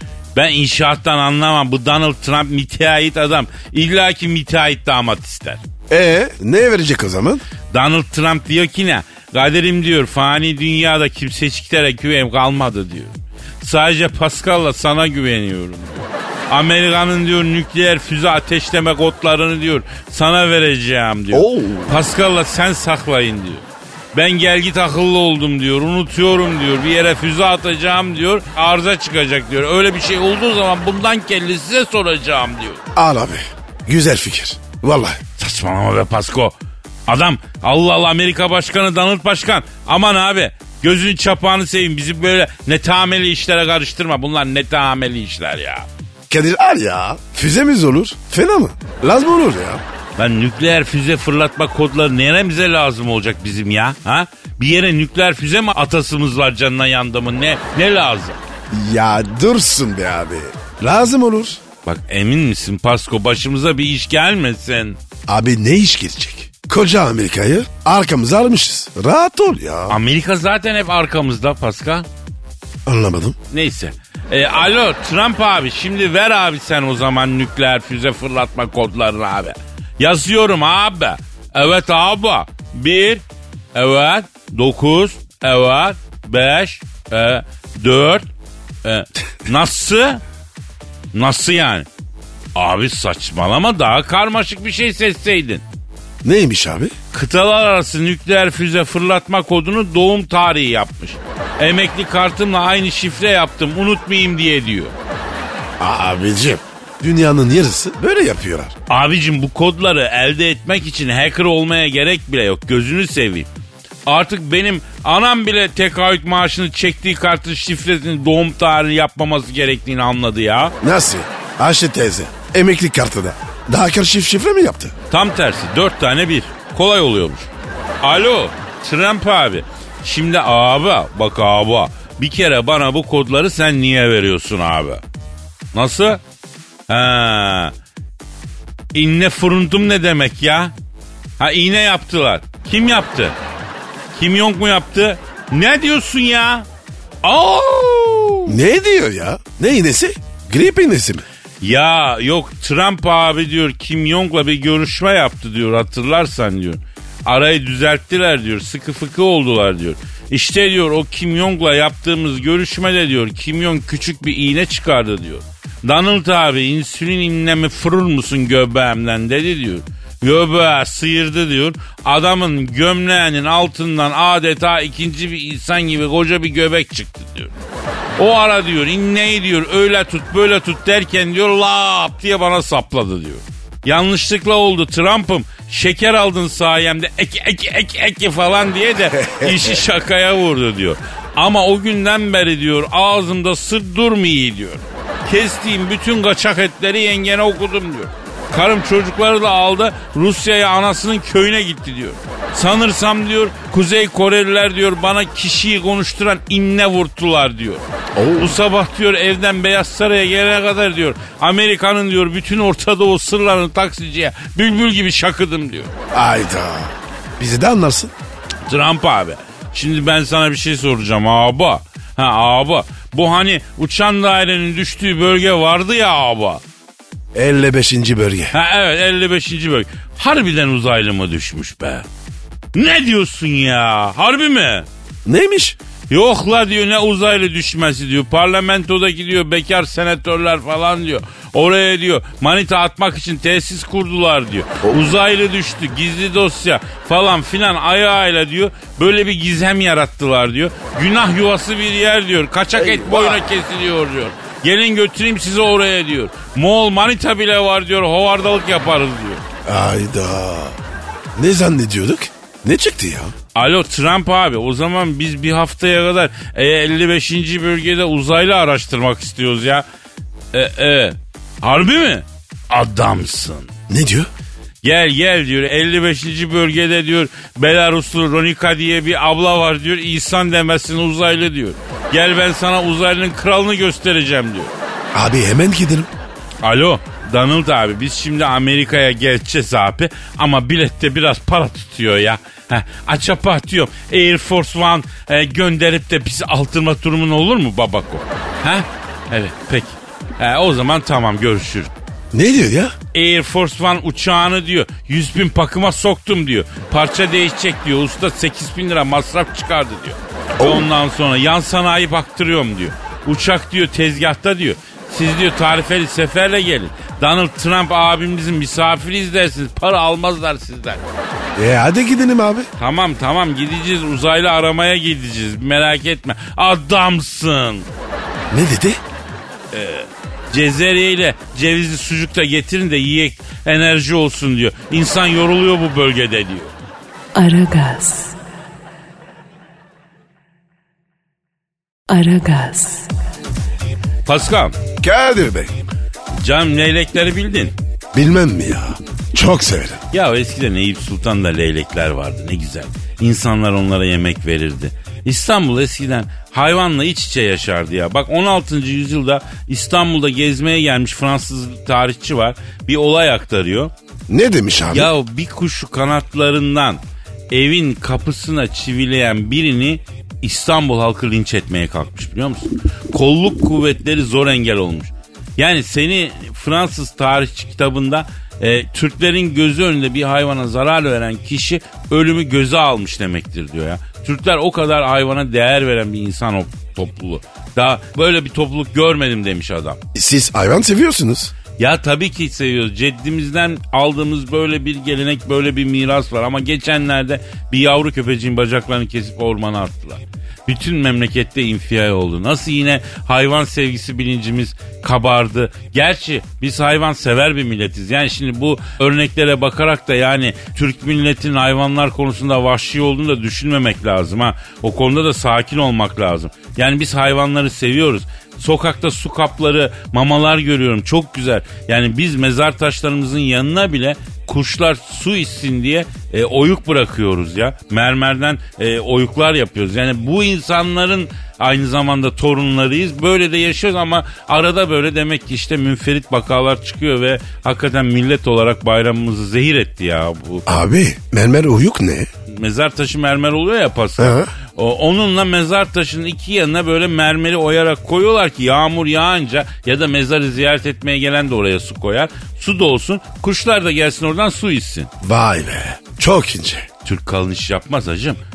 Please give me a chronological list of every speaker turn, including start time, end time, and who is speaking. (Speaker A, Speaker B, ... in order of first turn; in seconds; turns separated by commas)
Speaker A: 0.3-5.6, Speaker B: 5.9-7.4, Speaker A: 7.7-32.8, Speaker B: 21.3-22.0, Speaker B: 32.9-35.2, Speaker A: 35.4-36.5, Speaker A: 37.1-45.9, Speaker B: 46.3-49.8, Speaker A: 50.2-58.4, Speaker B: 58.7-61.6, Speaker A: 61.8-65.0, Speaker B: 65.3-70.0, Speaker A: 69.9-72.1, Speaker B: 72.8-73.4, Speaker A: 73.5-83.2, Speaker A: 83.7-88.2, Speaker A: 88.8-90.2, Speaker A: 91.1-91.9, Speaker A: 92.5-95.6, Speaker B: 96.2-96.9, Speaker A: 97.1-105.0, Speaker B: 105.8-108.7, Speaker A: 108.9-113.5, Speaker A: 114.0-120.7, Speaker B: 120.8-124.9, Speaker A: 125.1-127.5, Speaker A: 128.0-135.0, Speaker A: 135.7-136.2, Speaker A: 136.9-137.7, Speaker A: 138.9-140.7, Speaker A: 141.4-143.4, Speaker A: 144.1-146.7, Speaker A: 147.2-148.6, Speaker B: 148.5-151.2, Speaker A: 151.6-177.5, Speaker A: 178.2-207.8, Speaker B: 189.2-189.6, Speaker B: 208.1-208.6, Speaker A: 208.4-215.9, Speaker B: 216.1-218.1, Speaker A: 218.7-226.6, Speaker B: 227.3-228.5, Speaker A: 228.5-232.1, Speaker A: 232.7-234.9, Speaker B: 235.2-235.8, Speaker A: 236.1-259.4, Speaker B: 244.8-245.1, Speaker B: 252.7-253.4, Speaker B: 259.6-260.8, Speaker B: 261.3-263.3, Speaker A: 263.5-269.8, Speaker A: 270.5-273.7, Speaker B: 273.9-274.3, Speaker A: 274.8-284.7, Speaker B: 285.1-286.1, Speaker A: 286.6-301.9, Speaker B: 302.3-302.9, Speaker A: 303.1-321.0, Speaker B: 310.6-310.9, Speaker B: 321.6-322.7, Speaker A: 322.8-327.9, Speaker B: 328.5-329.0, Speaker A: 329.7-336.7, Speaker C: 337.3-338.4, Speaker C: 342.1-343.1, Speaker A: 344.2-344.8, Speaker B: 345.0-345.8, Speaker A: 346.4-347.7, Speaker B: 348.1-350.0, Speaker A: 350.1-363.9, Speaker B: 364.3-365.1, Speaker A: 364.9-390.0, Speaker B: 390.1-391.5, Speaker A: 391.8-440.7, Speaker B: 440.7-442.3, Speaker A: 442.5-455.1, Speaker B: 444.2-444.5, Speaker B: 455.2-456.9, Speaker A: 457.0-458.4